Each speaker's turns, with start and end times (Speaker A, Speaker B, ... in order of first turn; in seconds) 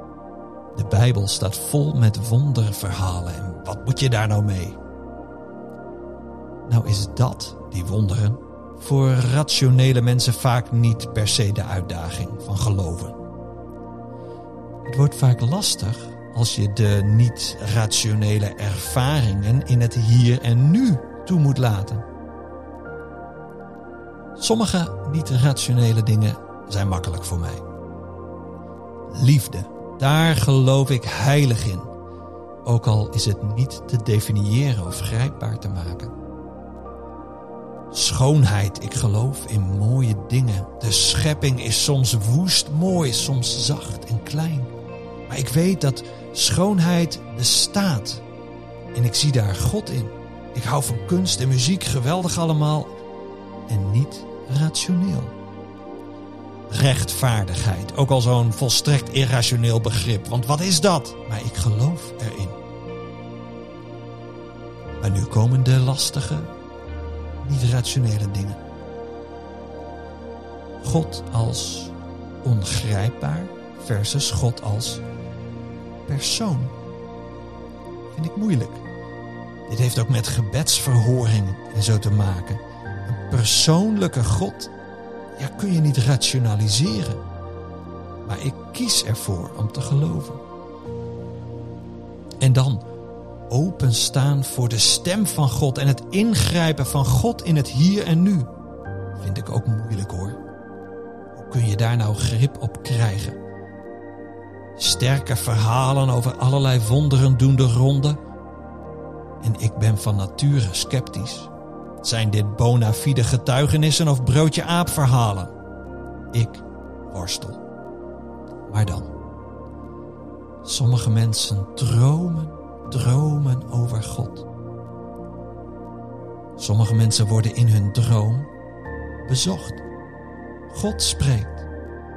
Speaker A: 0.7-4.8, 6.7-13.2, 14.8-22.0, 24.4-27.6, 29.1-31.9, 32.6-36.1, 37.9-44.7, 45.3-48.2, 48.9-52.9, 53.7-55.3, 56.7-62.5, 65.0-66.5, 67.4-68.6, 70.8-75.0, 76.1-76.7, 78.1-78.8, 79.7-84.7, 85.4-87.2, 88.2-90.4, 92.4-92.8, 93.5-98.5, 99.2-100.4, 101.3-103.4, 104.8-108.2, 109.4-111.5, 112.0-115.5, 116.3-117.6, 118.7-119.1, 120.6-124.5, 126.6-128.5, 129.2-129.8, 130.7-131.7